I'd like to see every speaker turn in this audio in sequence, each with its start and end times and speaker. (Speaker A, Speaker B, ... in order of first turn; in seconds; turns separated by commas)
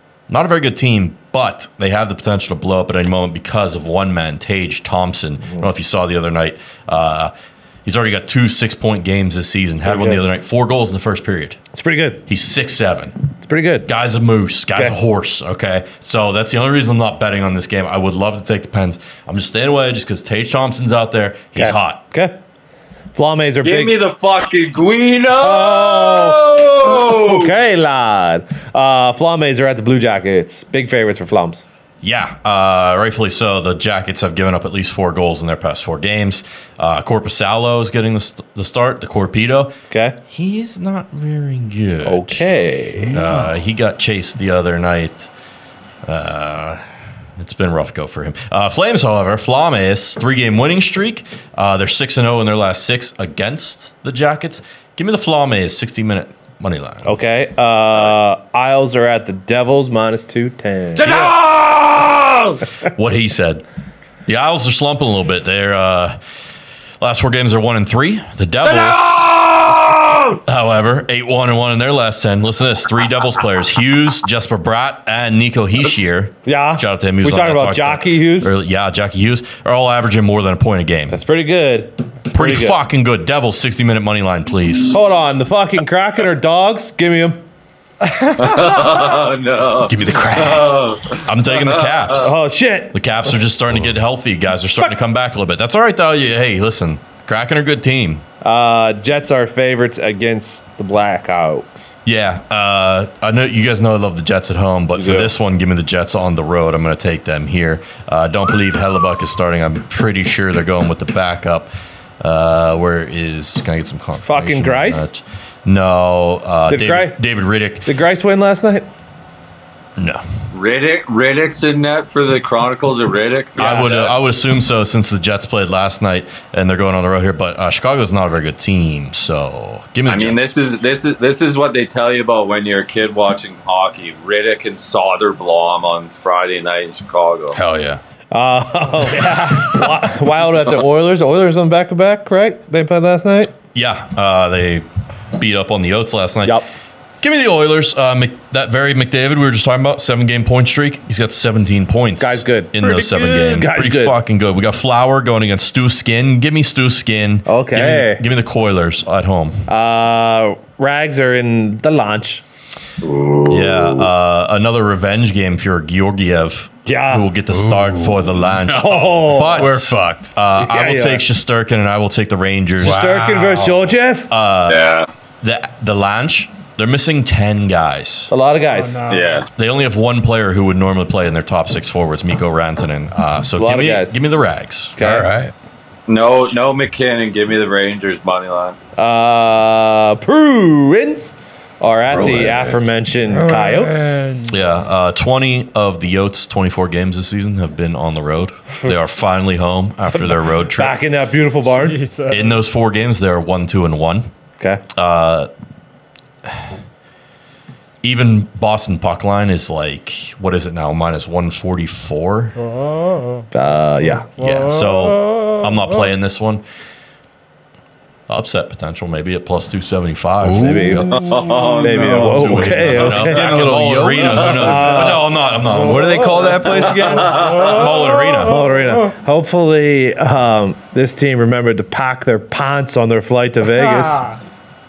Speaker A: 0.3-7.3, Speaker A: 7.8-11.6, Speaker B: 9.8-10.2, Speaker B: 11.7-12.2, Speaker A: 12.3-13.2, Speaker B: 13.4-13.9, Speaker A: 13.8-22.0, Speaker B: 21.6-22.4, Speaker B: 23.1-24.0, Speaker C: 23.6-27.5, Speaker B: 25.4-31.6, Speaker A: 32.0-39.8, Speaker B: 39.9-40.2, Speaker A: 40.3-42.5, Speaker B: 42.0-43.2, Speaker A: 43.1-45.3, Speaker A: 46.0-46.8, Speaker A: 47.4-57.1, Speaker B: 57.0-61.4, Speaker C: 61.0-62.2, Speaker A: 61.0-61.4, Speaker A: 62.9-63.6, Speaker A: 64.3-66.2, Speaker A: 67.0-69.3, Speaker C: 68.7-69.8, Speaker B: 69.8-70.3, Speaker A: 70.5-81.2, Speaker B: 76.4-78.5, Speaker B: 81.1-82.8, Speaker A: 82.3-85.0, Speaker B: 84.9-87.5, Speaker D: 88.2-88.5, Speaker C: 88.4-92.3, Speaker E: 89.8-90.8, Speaker A: 91.2-92.4, Speaker B: 92.2-93.0, Speaker A: 92.9-98.2, Speaker B: 98.4-101.9, Speaker A: 102.0-117.9, Speaker B: 105.0-105.3, Speaker B: 114.2-115.1, Speaker B: 116.7-117.2, Speaker B: 117.8-118.9, Speaker A: 120.0-120.2, Speaker C: 120.5-124.2, Speaker A: 123.6-130.5, Speaker C: 130.1-137.6, Speaker E: 137.5-138.0, Speaker B: 138.3-143.5, Speaker A: 143.7-146.6, Speaker A: 147.2-159.6, Speaker B: 152.2-154.2, Speaker B: 157.4-158.2, Speaker B: 159.7-162.4, Speaker C: 163.0-164.1, Speaker A: 163.5-173.0, Speaker B: 166.8-167.3, Speaker E: 167.5-170.3, Speaker B: 168.7-169.7, Speaker B: 170.6-171.2, Speaker E: 172.8-173.8, Speaker B: 172.8-174.3, Speaker A: 174.3-178.3, Speaker C: 174.7-175.1, Speaker B: 178.3-179.0, Speaker D: 178.7-179.4, Speaker C: 179.1-179.5, Speaker A: 179.5-185.0, Speaker B: 183.5-184.2, Speaker B: 184.9-185.3, Speaker E: 185.0-185.5, Speaker C: 186.1-188.8, Speaker B: 188.9-194.5, Speaker E: 192.1-192.7, Speaker D: 193.3-194.7, Speaker A: 194.5-201.1, Speaker B: 200.1-202.0, Speaker D: 201.8-202.6, Speaker A: 202.3-204.3, Speaker A: 204.9-205.5, Speaker A: 208.0-212.6, Speaker D: 212.6-213.4, Speaker B: 213.5-214.3, Speaker D: 214.4-216.1, Speaker A: 214.4-216.6, Speaker A: 218.3-226.3, Speaker E: 220.4-221.0, Speaker B: 220.6-221.2, Speaker C: 221.1-222.4, Speaker B: 221.8-223.5, Speaker E: 222.6-225.1, Speaker B: 224.4-225.2, Speaker E: 225.7-227.5, Speaker D: 225.9-226.6, Speaker C: 227.0-227.7, Speaker D: 227.2-228.7, Speaker A: 227.6-228.6, Speaker B: 228.4-234.2, Speaker D: 233.7-234.4